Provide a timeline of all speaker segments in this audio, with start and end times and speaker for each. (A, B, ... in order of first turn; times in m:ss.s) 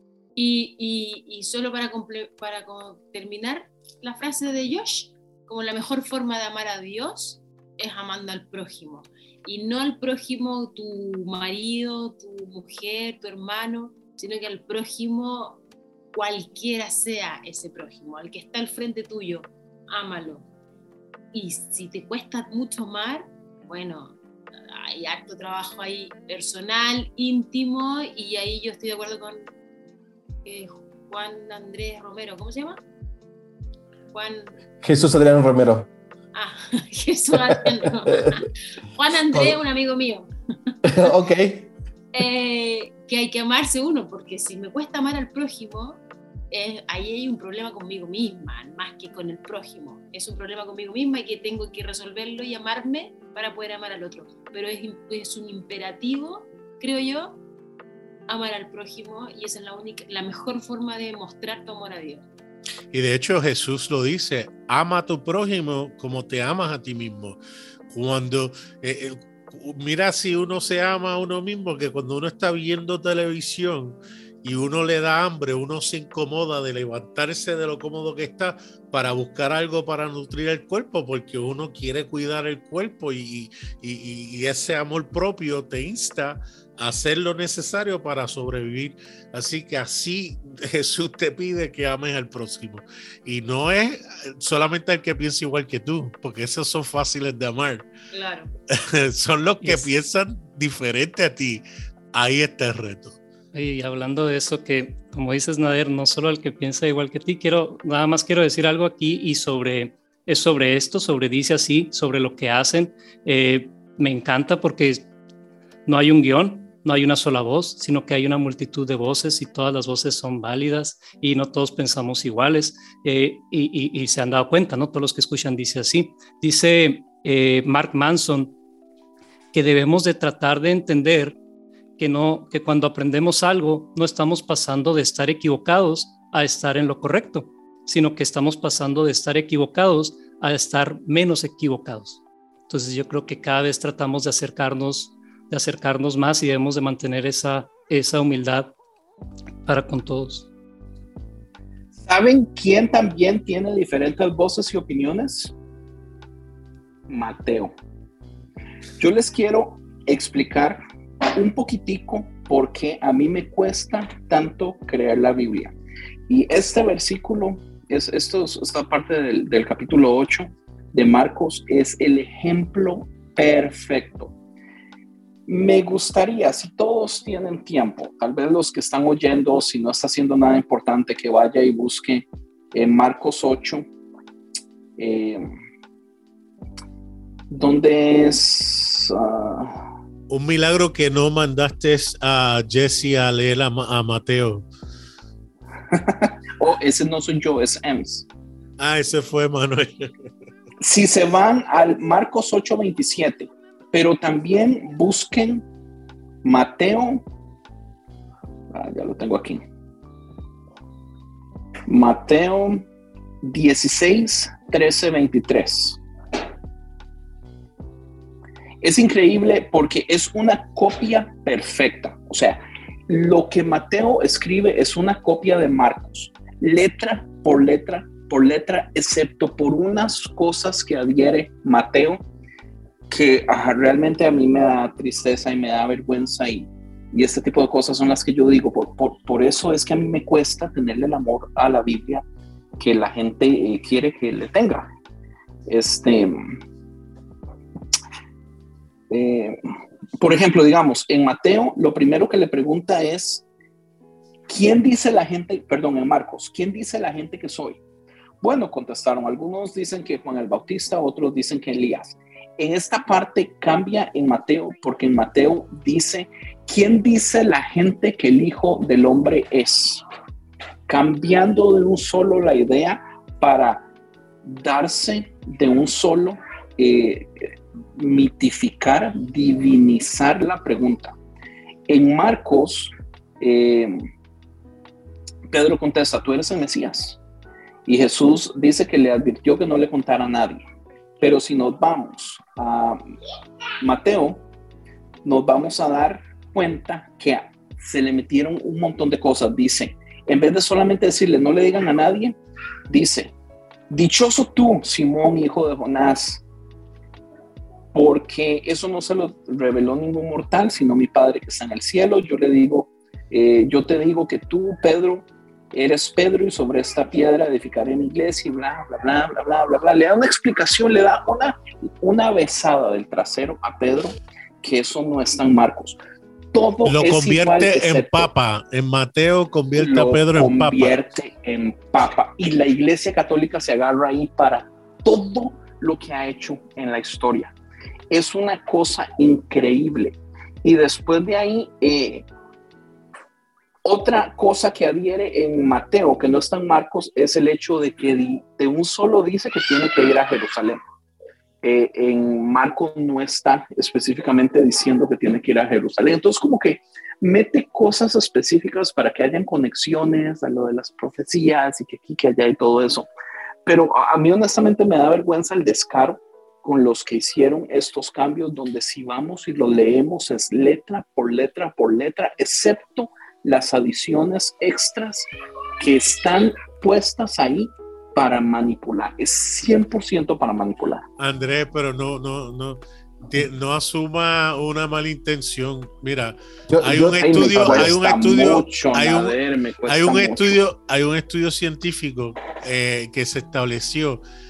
0:00.4-0:15.6 A
0:16.1-0:20.4 A
0:21.3-0:29.4 A
0:30.4-0:32.8 A
0:34.1-0:34.6 A
0:34.8-0:35.9 B
0:36.3-0:41.1 A
0:37.4-0:38.4 B
0:39.3-0:39.6 B
0:40.8-0:41.7 B
0:42.1-0:57.4 A
0:58.3-1:02.2 A
1:02.9-1:07.4 C
1:07.9-1:37.9 C
1:38.1-1:38.5 A
1:38.7-1:43.2 C
1:39.6-1:39.9 D
1:43.5-1:55.1 D
1:55.9-2:08.5 D
2:09.5-2:11.4 D
2:12.0-2:28.7 D
2:29.6-2:30.5 D
2:32.0-2:35.5 E
2:37.1-2:37.8 E
2:39.0-2:40.8 E
2:41.3-2:45.8 E
2:46.3-2:54.3 E
2:55.5-3:03.8 E
3:05.0-3:05.5 E
3:07.5-3:09.8 E
3:10.3-3:14.6 C
3:15.9-3:18.3 E
3:18.8-3:20.1 C
3:20.8-3:25.6 E
3:26.4-3:27.2 E
3:28.7-3:29.6 E
3:31.9-3:32.8 E
3:33.4-3:36.0 E
3:38.8-3:52.2 E
3:53.1-4:02.2 E
4:02.8-4:04.9 E
4:05.7-4:06.4 E
4:09.1-4:09.6 E
4:10.2-4:13.4 E
4:14.5-4:17.8 E
4:18.4-4:30.0 E
4:30.9-4:33.8 E
4:34.4-4:41.2 E
4:41.9-4:44.0 E
4:45.5-4:47.2 E
4:47.8-4:50.6 E
4:51.2-4:53.0 E
4:53.8-4:54.4 E
4:55.2-5:03.3 E
5:03.9-5:06.4 E
5:07.9-5:26.0 E
5:26.5-5:28.3 E
5:26.8-5:31.0 C
5:29.8-5:37.5 E
5:38.1-5:42.3 E
5:43.8-5:50.8 E
5:51.6-6:03.1 E
6:03.6-6:15.3 E
6:15.8-6:21.0 E
6:21.2-6:34.2 C
6:26.7-6:27.9 B
6:27.0-6:30.6 E